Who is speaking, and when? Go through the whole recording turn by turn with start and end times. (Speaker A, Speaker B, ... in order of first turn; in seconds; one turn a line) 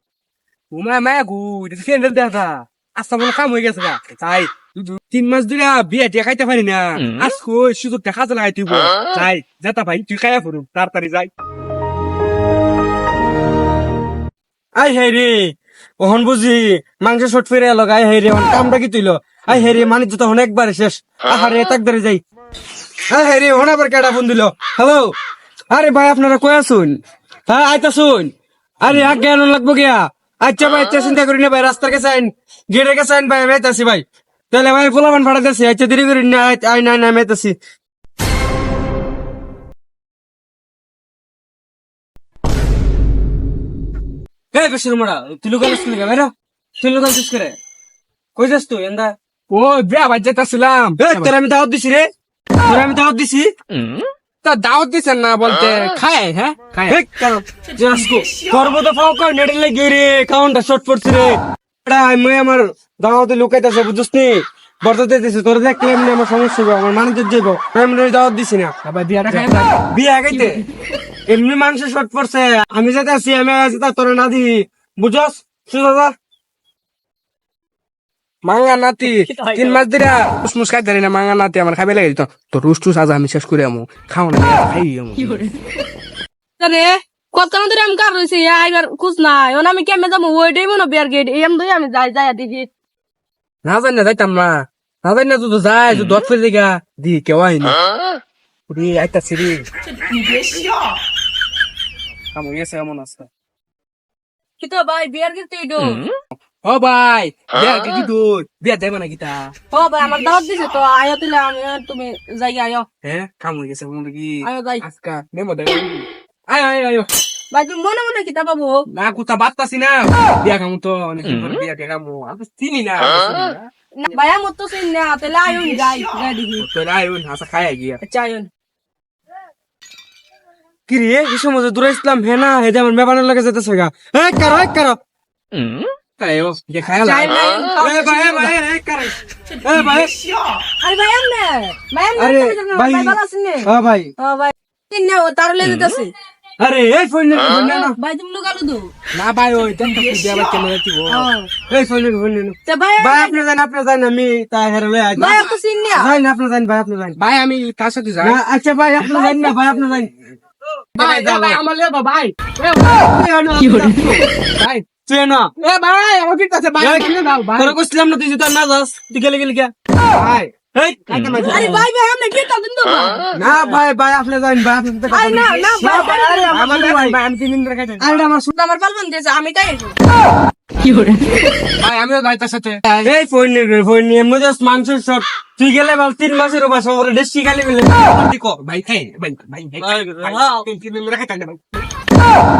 Speaker A: 0.7-11.3
Speaker B: 14.8-22.2
Speaker B: 23.1-25.1
Speaker B: 25.7-26.9
Speaker B: 27.5-37.6
Speaker B: 44.5-47.6
Speaker B: 48.4-49.1
Speaker A: 49.5-51.3
Speaker B: 51.0-52.1
Speaker B: 52.6-53.5
Speaker A: 54.4-57.0
Speaker B: 56.9-68.7
Speaker A: 68.8-69.7
Speaker B: 69.3-70.6
Speaker C: 70.3-70.6
Speaker B: 71.3-76.1
Speaker A: 78.4-85.5
Speaker C: 79.3-79.7
Speaker C: 85.2-85.6
Speaker C: 86.6-92.7
Speaker A: 93.6-97.8
Speaker A: 98.7-99.7
Speaker A: 102.3-103.3
Speaker C: 104.6-106.1
Speaker A: 106.4-109.5
Speaker C: 109.7-112.9
Speaker A: 113.0-117.1
Speaker C: 114.4-114.8
Speaker C: 117.5-118.8
Speaker A: 118.9-123.7
Speaker C: 124.0-126.7
Speaker A: 126.6-128.0
Speaker C: 128.0-128.5
Speaker B: 130.9-135.0
Speaker A: 136.2-137.3
Speaker C: 137.0-138.5
Speaker B: 137.8-140.1
Speaker C: 140.8-146.1
Speaker B: 142.2-144.1
Speaker B: 146.6-148.0
Speaker C: 147.5-148.9
Speaker A: 149.1-151.3
Speaker C: 151.1-151.5
Speaker B: 151.7-157.2
Speaker C: 152.7-153.3
Speaker C: 155.1-156.1
Speaker A: 155.2-155.5
Speaker A: 157.2-158.4
Speaker B: 158.2-160.1
Speaker C: 159.1-159.5
Speaker A: 160.9-162.9
Speaker C: 161.0-161.5
Speaker B: 161.0-161.6
Speaker B: 162.9-164.2
Speaker C: 163.6-164.2
Speaker A: 164.6-164.8
Speaker B: 164.8-165.5
Speaker A: 165.6-167.8
Speaker B: 166.8-171.8
Speaker A: 171.1-171.8
Speaker C: 171.4-173.3
Speaker B: 173.3-177.2
Speaker C: 175.1-176.6
Speaker A: 176.5-178.2
Speaker B: 178.0-178.5
Speaker C: 178.5-180.0
Speaker C: 180.8-181.4
Speaker A: 181.8-183.1
Speaker B: 183.0-188.1
Speaker A: 188.1-191.8
Speaker B: 189.8-190.7